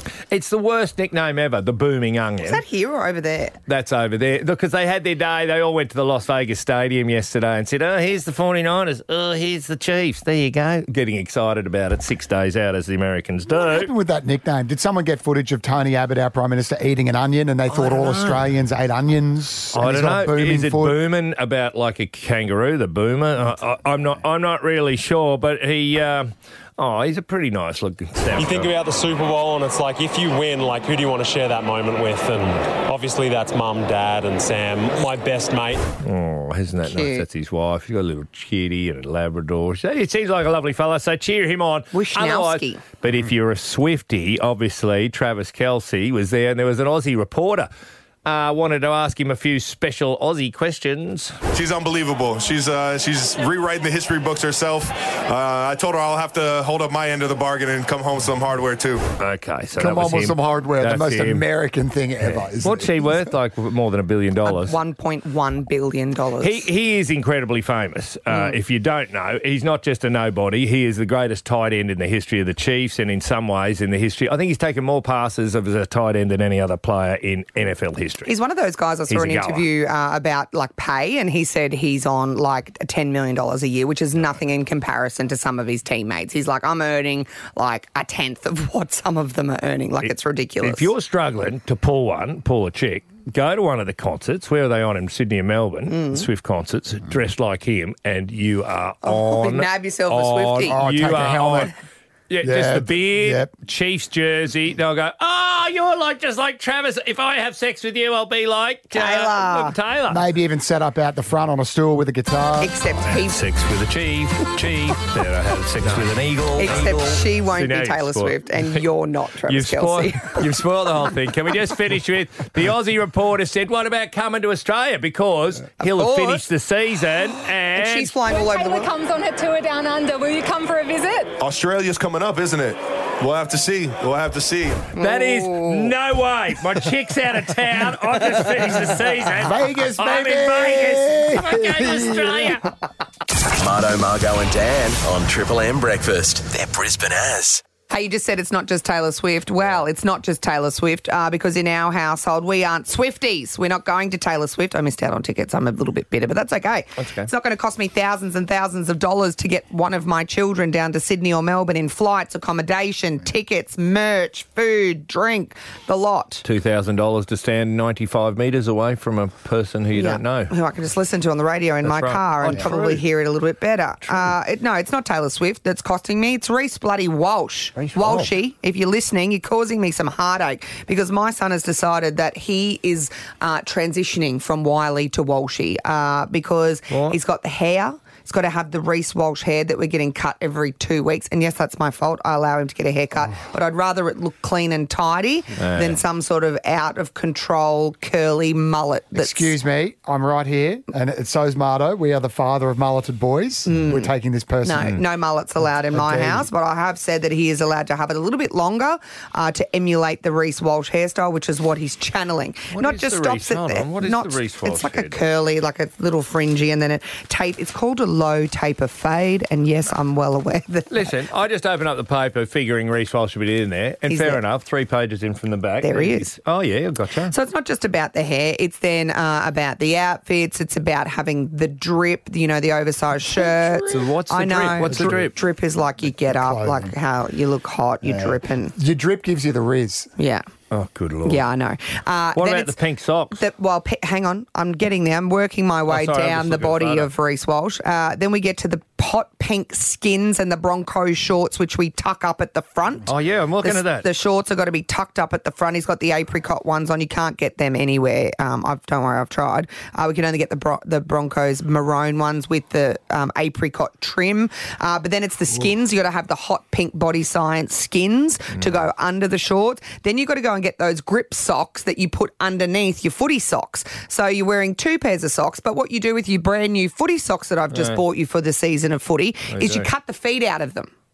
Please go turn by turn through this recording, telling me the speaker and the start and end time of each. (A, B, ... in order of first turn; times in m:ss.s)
0:00.3-0:02.6 A
0:02.4-0:03.6 B
0:03.7-0:13.9 A
0:13.5-0:21.0 C
0:17.7-0:18.4 A
0:19.7-0:28.7 A
0:28.4-0:35.9 D
0:36.0-0:47.7 A
0:36.9-0:37.2 B
0:41.9-0:42.8 B
0:48.2-0:51.4 A
0:51.5-0:59.0 E
0:59.2-1:01.4 A
0:59.8-1:02.9 C
1:02.2-1:04.8 A
1:04.4-1:06.7 B
1:06.4-1:18.3 A
1:18.3-1:30.9 B
1:19.1-1:19.7 A
1:30.0-1:41.7 A
1:35.9-1:36.3 B
1:39.0-1:40.8 B
1:40.6-1:41.7 C
1:42.3-1:50.2 A
1:42.4-1:43.5 C
1:48.9-1:49.8 B
1:50.1-1:52.7 C
1:52.6-1:53.4 B
1:53.0-1:58.8 A
1:56.6-2:00.4 B
1:59.5-2:08.2 A
2:05.8-2:06.4 B
2:07.8-2:08.9 B
2:08.3-2:11.4 F
2:11.4-2:14.9 E
2:15.0-2:15.9 B
2:15.0-2:22.7 A
2:19.4-2:22.6 C
2:23.6-2:27.6 G
2:27.9-2:46.4 B
2:37.0-2:37.3 A
2:46.4-2:50.5 A
2:50.0-3:19.5 B
2:51.8-2:53.0 A
2:54.1-2:54.3 A
2:57.8-2:58.3 A
3:06.9-3:07.2 A
3:15.6-3:16.0 A
3:19.2-3:25.0 C
3:23.7-3:24.1 B
3:24.6-3:41.1 B
3:25.9-3:26.5 C
3:32.7-3:35.2 A
3:40.9-3:47.3 A
3:44.1-3:44.4 B
3:45.8-3:46.3 B
3:47.3-3:58.8 B
3:53.4-3:54.0 C
3:53.9-3:55.3 A
3:54.9-3:55.3 C
3:56.2-3:56.9 C
3:58.0-4:00.1 C
4:00.2-4:00.5 B
4:00.7-4:01.4 A
4:01.2-4:02.8 B
4:02.4-4:03.4 A
4:03.3-4:13.1 B
4:05.9-4:07.1 A
4:13.1-4:14.1 A
4:13.6-4:40.9 B
4:37.7-4:38.0 A
4:39.5-4:39.9 A